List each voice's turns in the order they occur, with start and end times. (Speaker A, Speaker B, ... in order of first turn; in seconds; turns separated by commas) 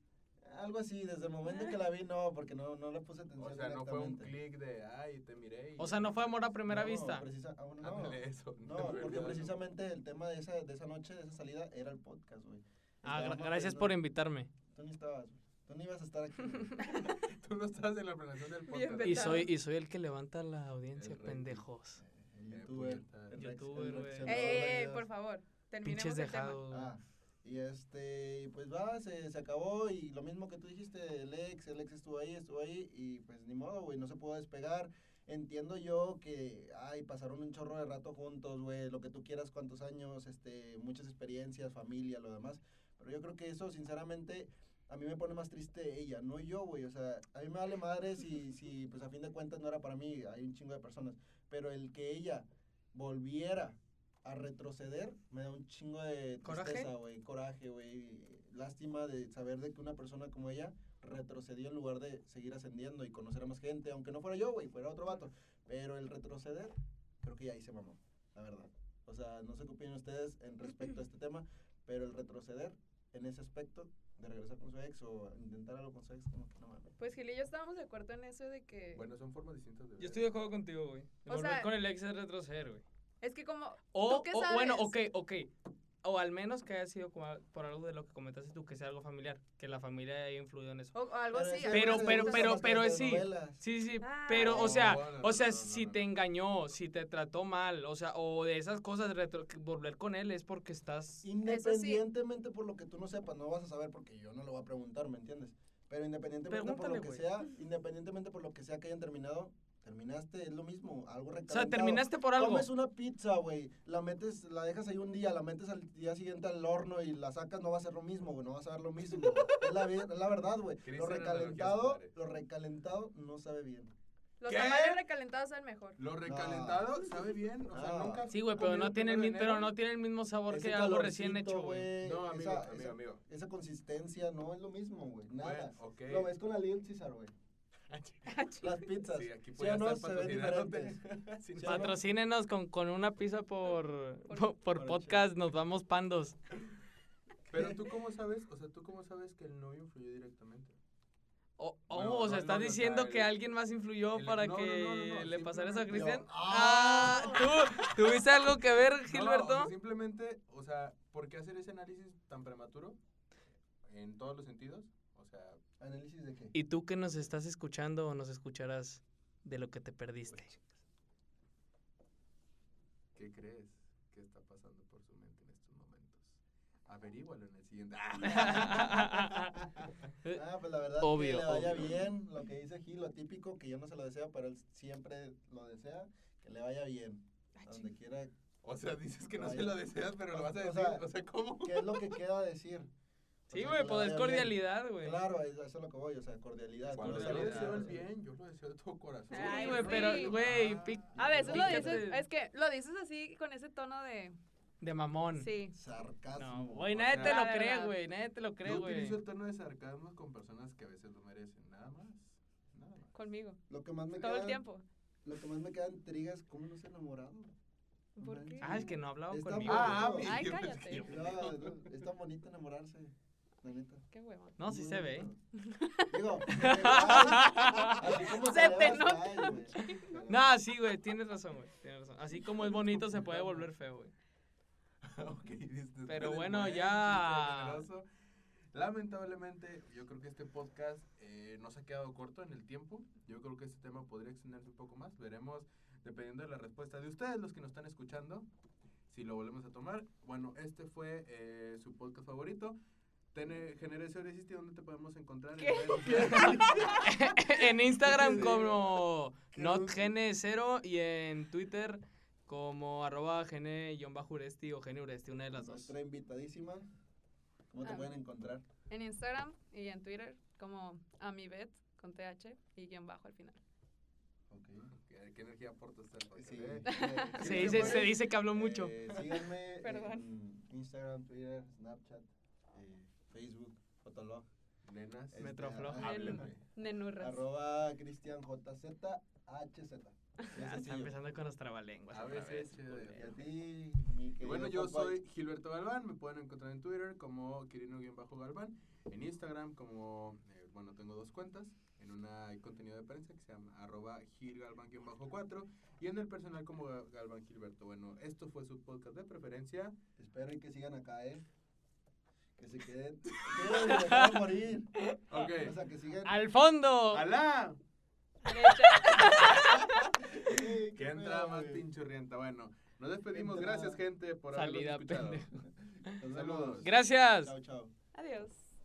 Speaker A: 0.4-4.3, Speaker B: 3.4-6.4, Speaker C: 5.8-7.2, Speaker A: 6.7-13.9, Speaker B: 7.8-9.6, Speaker C: 13.0-14.5, Speaker A: 14.7-16.8, Speaker B: 16.8-19.5, Speaker D: 18.7-19.5, Speaker C: 19.0-22.0, Speaker B: 20.9-21.6, Speaker A: 22.0-25.1, Speaker B: 22.5-23.4, Speaker C: 23.3-24.4, Speaker D: 24.2-26.6, Speaker C: 25.8-26.9, Speaker A: 26.7-77.0, Speaker C: 56.4-56.9, Speaker D: 77.0-79.0, Speaker B: 78.9-80.3, Speaker C: 80.0-82.8, Speaker D: 81.2-81.7, Speaker D: 83.2-84.9, Speaker C: 83.9-85.5, Speaker C: 86.0-90.9, Speaker D: 90.9-92.6, Speaker A: 91.3-93.6, Speaker C: 91.7-101.2, Speaker D: 94.0-95.0, Speaker B: 94.3-96.1, Speaker A: 101.2-123.9, Speaker D: 101.4-102.0, Speaker C: 106.5-107.2, Speaker C: 111.5-112.7, Speaker B: 120.8-122.1, Speaker D: 124.4-126.0, Speaker B: 124.5-125.1, Speaker B: 126.0-129.7, Speaker A: 126.2-126.9, Speaker A: 127.7-128.9, Speaker C: 128.3-131.9, Speaker A: 130.5-137.3, Speaker B: 132.0-133.2, Speaker B: 135.4-136.3, Speaker B: 137.9-138.4, Speaker D: 138.3-138.9, Speaker A: 138.6-141.0, Speaker B: 139.0-141.9, Speaker A: 141.5-142.0, Speaker C: 141.6-146.4, Speaker D: 144.3-144.5, Speaker A: 144.8-145.2, Speaker B: 147.5-150.8, Speaker C: 151.6-159.7, Speaker B: 151.9-153.3, Speaker B: 154.1-158.4, Speaker A: 155.9-157.6, Speaker B: 159.0-163.0, Speaker B: 163.8-165.6, Speaker A: 165.8-166.5, Speaker C: 166.5-170.6, Speaker B: 173.1-179.9, Speaker C: 178.2-179.6, Speaker A: 180.3-188.3, Speaker C: 181.0-182.0, Speaker D: 187.6-187.9, Speaker B: 188.6-192.2, Speaker A: 189.3-191.1, Speaker A: 191.6-192.9, Speaker A: 193.5-198.0, Speaker C: 193.5-195.2, Speaker B: 196.9-201.6, Speaker C: 196.9-197.9, Speaker D: 199.3-200.3, Speaker C: 199.3-202.2, Speaker A: 201.1-202.1, Speaker D: 201.2-204.4, Speaker C: 204.8-205.5, Speaker D: 205.3-205.8, Speaker A: 205.7-207.2, Speaker C: 206.3-209.2, Speaker B: 207.0-207.4, Speaker D: 207.2-207.9, Speaker B: 208.6-213.1, Speaker D: 213.1-213.6, Speaker A: 213.7-214.6, Speaker D: 214.1-214.8, Speaker A: 215.2-217.5, Speaker D: 218.2-218.9, Speaker A: 218.2-224.0, Speaker C: 218.6-220.2, Speaker B: 219.6-221.9, Speaker D: 220.2-221.4, Speaker D: 224.1-224.6, Speaker C: 224.6-225.3, Speaker A: 224.6-225.4, Speaker D: 225.6-230.2, Speaker A: 226.1-230.5, Speaker C: 226.5-228.1, Speaker C: 229.9-234.1, Speaker B: 232.9-233.6, Speaker B: 235.0-238.0, Speaker C: 236.1-237.8, Speaker B: 238.7-248.5, Speaker B: 249.1-252.8, Speaker B: 253.3-257.1, Speaker D: 255.6-257.1, Speaker A: 256.1-256.7, Speaker C: 256.9-265.9, Speaker A: 258.1-258.8, Speaker B: 258.1-258.7, Speaker A: 259.5-260.1, Speaker A: 265.6-266.9, Speaker A: 267.7-268.6, Speaker D: 267.8-268.1, Speaker D: 268.9-273.6, Speaker A: 274.5-274.9, Speaker B: 274.9-278.1, Speaker A: 276.3-284.5, Speaker D: 276.9-277.4, Speaker C: 277.4-279.0, Speaker D: 279.8-280.2, Speaker B: 284.8-286.6, Speaker A: 285.3-286.5, Speaker C: 285.4-286.2, Speaker D: 286.0-287.4, Speaker A: 287.2-291.1, Speaker C: 290.5-293.3, Speaker B: 292.1-293.5, Speaker A: 292.9-295.2, Speaker B: 294.4-309.9, Speaker A: 310.2-311.4, Speaker A: 312.6-314.9, Speaker B: 313.3-313.9, Speaker C: 313.6-314.4, Speaker C: 315.0-315.3, Speaker B: 315.3-315.8, Speaker A: 315.6-316.4, Speaker C: 316.2-317.2, Speaker B: 317.1-317.8, Speaker D: 318.4-320.1, Speaker C: 318.5-319.6, Speaker B: 319.1-320.0, Speaker A: 320.3-321.8, Speaker B: 320.9-325.4, Speaker A: 323.3-324.0, Speaker C: 324.5-325.5, Speaker A: 326.1-327.9, Speaker B: 326.2-326.9, Speaker C: 326.8-327.5, Speaker D: 328.1-328.6